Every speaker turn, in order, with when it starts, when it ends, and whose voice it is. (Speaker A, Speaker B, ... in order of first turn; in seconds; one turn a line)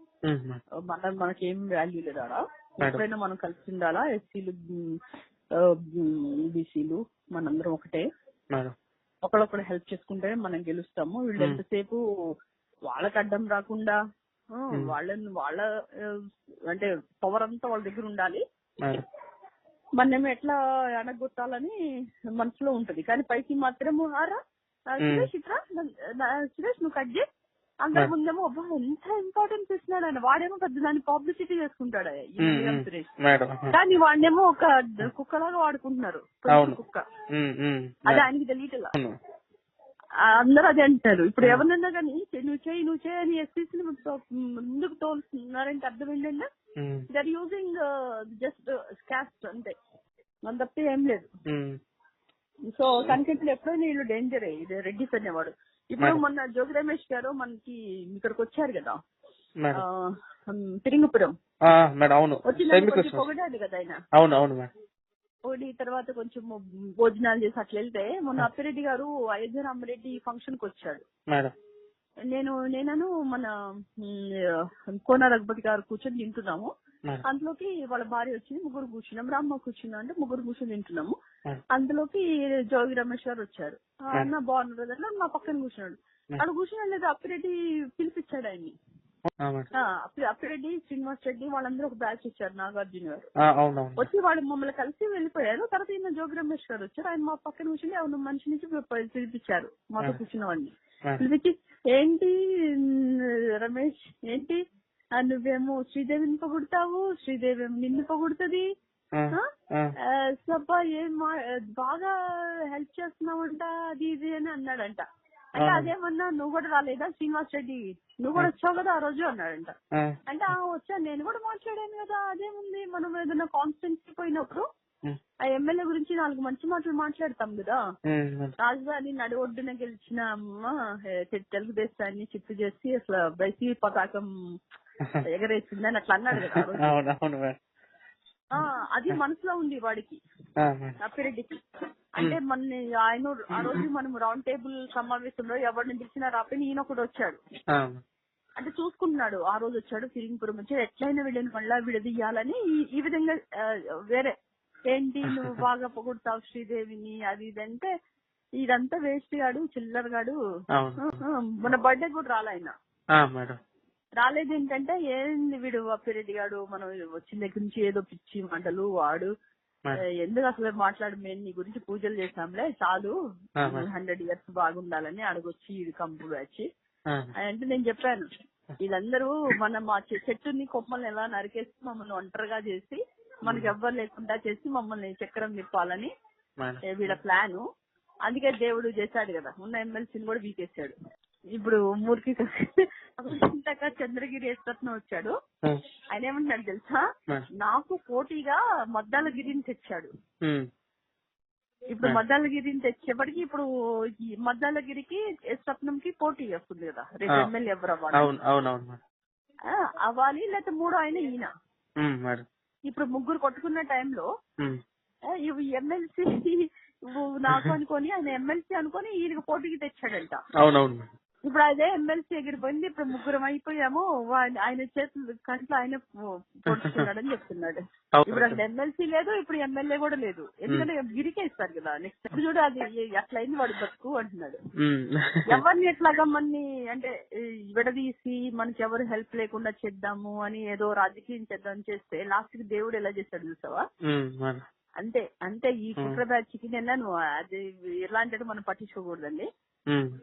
Speaker A: 0.3-0.6
Speaker B: 0.9-5.0
Speaker B: 5.6-8.0
Speaker B: 9.2-12.0
Speaker B: 12.9-14.0
Speaker B: 14.6-16.2
Speaker B: 16.7-18.4
Speaker B: 20.0-21.7
Speaker B: 22.4-24.4
Speaker B: 24.9-27.2
Speaker A: 25.0-25.3
Speaker B: 27.8-33.1
Speaker A: 32.4-33.7
Speaker B: 33.7-37.0
Speaker A: 36.5-36.8
Speaker A: 37.4-38.3
Speaker B: 38.1-38.9
Speaker B: 40.2-46.5
Speaker A: 46.8-47.0
Speaker B: 47.1-47.8
Speaker B: 48.4-49.7
Speaker B: 50.5-51.3
Speaker A: 51.5-51.8
Speaker B: 52.7-59.0
Speaker B: 59.7-61.3
Speaker A: 61.7-63.2
Speaker B: 62.5-64.0
Speaker A: 64.2-64.7
Speaker B: 65.5-71.0
Speaker B: 72.3-74.3
Speaker B: 75.0-76.7
Speaker B: 77.3-81.2
Speaker B: 81.7-88.7
Speaker A: 89.5-89.7
Speaker B: 89.8-93.3
Speaker A: 93.5-94.0
Speaker B: 94.0-104.6
Speaker B: 105.2-108.6
Speaker A: 109.2-109.9
Speaker B: 110.0-112.1
Speaker B: 112.7-115.0
Speaker B: 115.6-119.7
Speaker A: 115.6-115.9
Speaker B: 120.3-124.7
Speaker B: 125.4-127.8
Speaker A: 128.1-128.5
Speaker B: 128.6-134.3
Speaker B: 135.3-136.9
Speaker A: 136.5-137.6
Speaker B: 138.5-140.2
Speaker A: 140.6-141.0
Speaker B: 141.0-141.6
Speaker B: 142.2-147.4
Speaker A: 147.7-148.0
Speaker B: 148.6-154.3
Speaker B: 154.9-157.9
Speaker A: 155.3-155.6
Speaker B: 158.6-160.3
Speaker A: 160.8-161.2
Speaker B: 161.1-162.7
Speaker A: 163.2-163.6
Speaker B: 164.2-169.3
Speaker B: 170.2-176.7
Speaker A: 173.6-173.9
Speaker B: 177.4-178.3
Speaker B: 178.8-186.1
Speaker A: 183.5-183.7
Speaker A: 186.6-187.2
Speaker B: 186.9-187.6
Speaker B: 188.3-190.9
Speaker B: 191.5-195.3
Speaker B: 196.1-197.0
Speaker B: 197.6-200.1
Speaker B: 201.9-203.6
Speaker B: 204.2-208.3
Speaker A: 208.1-209.0
Speaker B: 209.7-211.5
Speaker A: 212.0-212.4
Speaker B: 212.9-214.3
Speaker B: 215.4-220.4
Speaker A: 220.6-221.1
Speaker B: 221.5-226.0
Speaker B: 226.6-234.6
Speaker A: 226.8-227.1
Speaker A: 228.2-228.6
Speaker A: 234.8-235.6
Speaker B: 235.5-237.1
Speaker B: 237.7-243.8
Speaker A: 244.1-244.6
Speaker B: 245.0-249.5